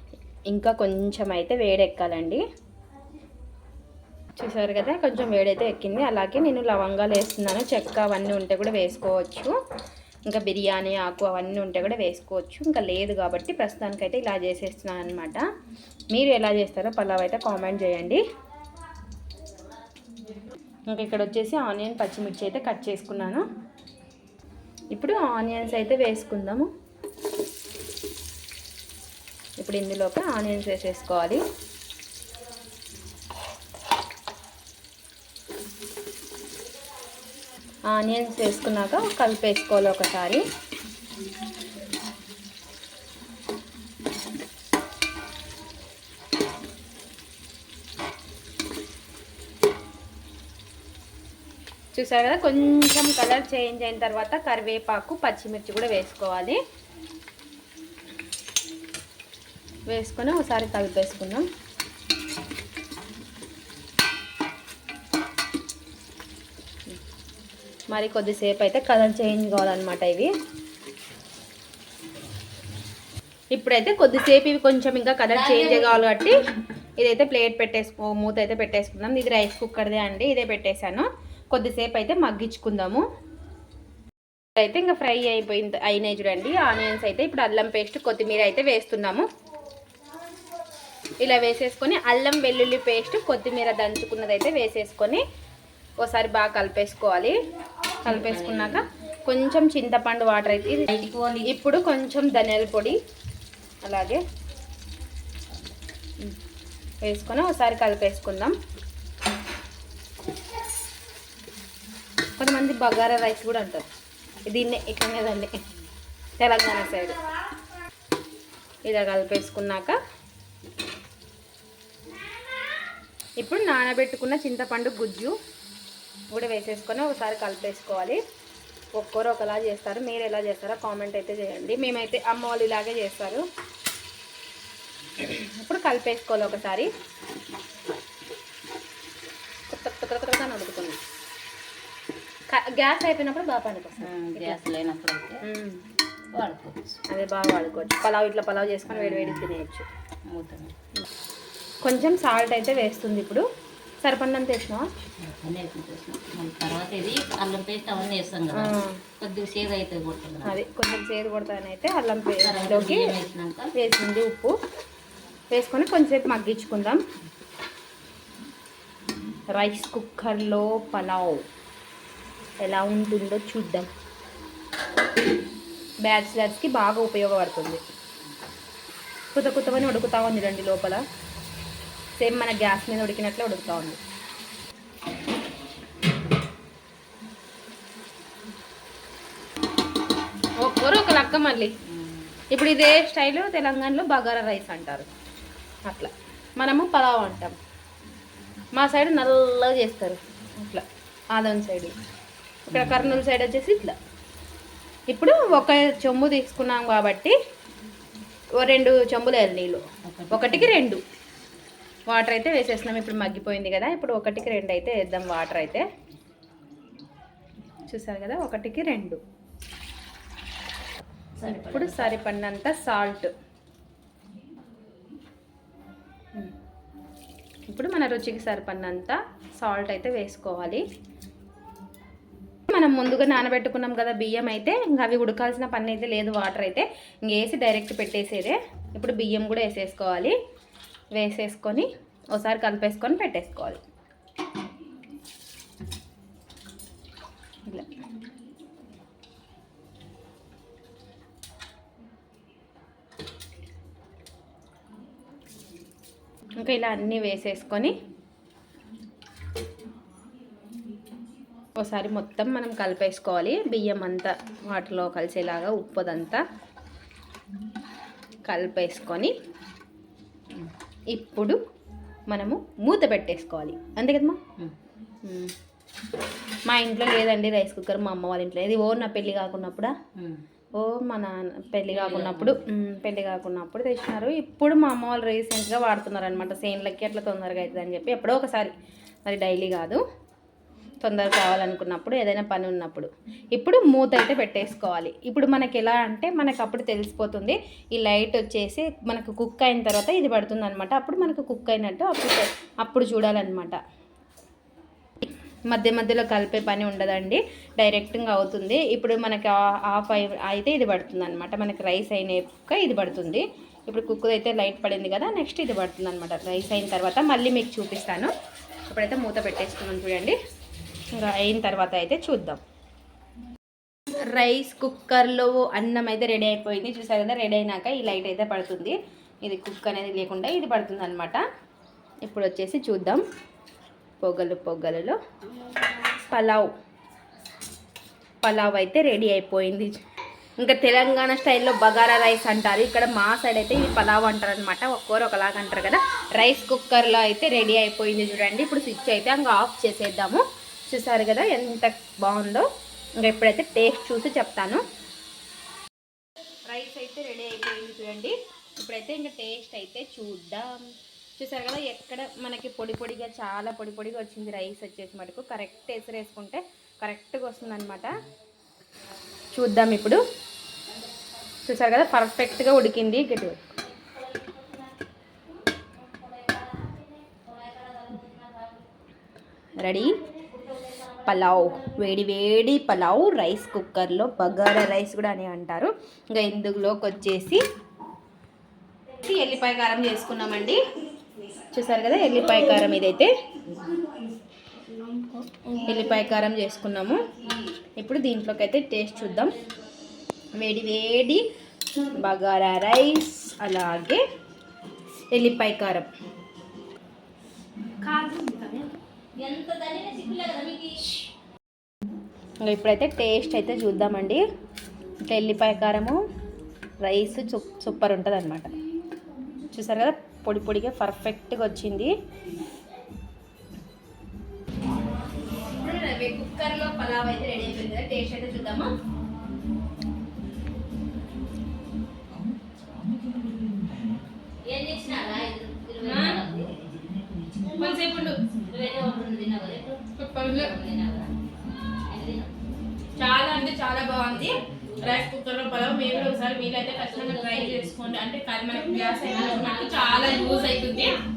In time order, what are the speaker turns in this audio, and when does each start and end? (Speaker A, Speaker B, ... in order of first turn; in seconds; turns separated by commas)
Speaker A: 0.5-2.4, Speaker A: 4.4-9.5, Speaker A: 10.2-15.4, Speaker A: 16.1-18.2, Speaker A: 20.9-23.4, Speaker A: 24.9-26.7, Speaker A: 29.6-31.4, Speaker A: 37.9-40.4, Speaker A: 51.9-56.6, Speaker A: 59.9-61.4, Speaker A: 67.9-70.3, Speaker A: 73.5-76.4, Speaker B: 75.3-76.0, Speaker A: 77.0-83.0, Speaker A: 84.6-89.2, Speaker A: 91.2-95.2, Speaker A: 96.0-97.3, Speaker A: 98.0-100.9, Speaker B: 98.1-98.8, Speaker B: 100.9-101.5, Speaker A: 101.5-103.0, Speaker A: 103.8-104.2, Speaker A: 107.0-108.5, Speaker A: 112.4-113.9, Speaker A: 114.5-115.6, Speaker A: 116.4-117.2, Speaker A: 118.8-120.0, Speaker A: 123.4-125.3, Speaker A: 126.3-128.2, Speaker A: 128.9-133.4, Speaker A: 135.2-136.9, Speaker A: 139.7-141.0, Speaker A: 142.5-144.6, Speaker B: 144.0-145.4, Speaker A: 145.4-145.8, Speaker B: 146.3-147.0, Speaker A: 147.1-149.8, Speaker B: 148.9-149.5, Speaker B: 150.3-150.7, Speaker A: 151.8-153.4, Speaker A: 154.0-154.9, Speaker B: 155.2-160.5, Speaker A: 158.5-159.0, Speaker A: 160.4-163.1, Speaker B: 162.4-163.7, Speaker A: 163.8-164.5, Speaker A: 165.5-167.0, Speaker A: 169.5-171.4, Speaker A: 172.6-173.9, Speaker A: 176.0-177.8, Speaker A: 179.3-181.0, Speaker A: 182.2-184.0, Speaker A: 190.6-191.7, Speaker B: 191.9-192.3, Speaker A: 192.5-195.1, Speaker A: 195.9-197.5, Speaker A: 198.8-201.9, Speaker A: 202.7-203.9, Speaker B: 202.7-203.2, Speaker A: 205.1-207.3, Speaker A: 208.6-211.0, Speaker B: 210.0-210.7, Speaker A: 212.1-215.8, Speaker A: 217.9-219.2, Speaker B: 221.4-222.2, Speaker A: 221.4-223.3, Speaker A: 227.7-230.8, Speaker A: 232.7-240.3, Speaker A: 241.1-243.8, Speaker A: 256.6-257.9, Speaker A: 261.8-266.4, Speaker A: 268.5-269.3, Speaker A: 271.1-271.6, Speaker A: 272.3-274.4, Speaker A: 275.2-275.5, Speaker A: 276.7-279.9, Speaker B: 280.2-280.4, Speaker A: 280.8-288.7, Speaker B: 281.9-282.6, Speaker A: 289.2-290.0, Speaker A: 291.0-303.8, Speaker A: 305.7-318.3, Speaker A: 318.9-320.4, Speaker A: 321.1-322.6, Speaker A: 324.2-331.4, Speaker A: 332.2-333.2, Speaker A: 334.2-335.2, Speaker A: 336.1-336.7, Speaker A: 338.4-339.9, Speaker A: 340.6-352.6, Speaker A: 353.2-354.8, Speaker A: 356.7-360.8, Speaker A: 361.4-368.1, Speaker A: 369.5-370.2, Speaker A: 371.6-373.6, Speaker B: 376.1-378.8, Speaker A: 379.8-380.2, Speaker A: 381.2-387.6, Speaker A: 389.2-390.8, Speaker A: 391.7-393.3, Speaker A: 395.8-397.3, Speaker A: 398.0-399.5, Speaker B: 399.4-399.6, Speaker A: 400.6-401.4, Speaker A: 402.1-404.2, Speaker A: 405.3-406.1, Speaker A: 408.0-408.9, Speaker B: 409.4-411.1, Speaker A: 412.6-414.4, Speaker A: 415.2-416.2, Speaker A: 417.0-418.7, Speaker A: 419.7-422.1, Speaker A: 425.6-428.9, Speaker B: 434.6-436.7, Speaker A: 436.0-436.4, Speaker A: 437.6-438.5, Speaker B: 438.5-441.3, Speaker A: 440.1-440.7, Speaker B: 442.1-442.7, Speaker A: 443.2-451.2, Speaker B: 444.4-445.2, Speaker B: 446.0-448.2, Speaker B: 449.2-450.8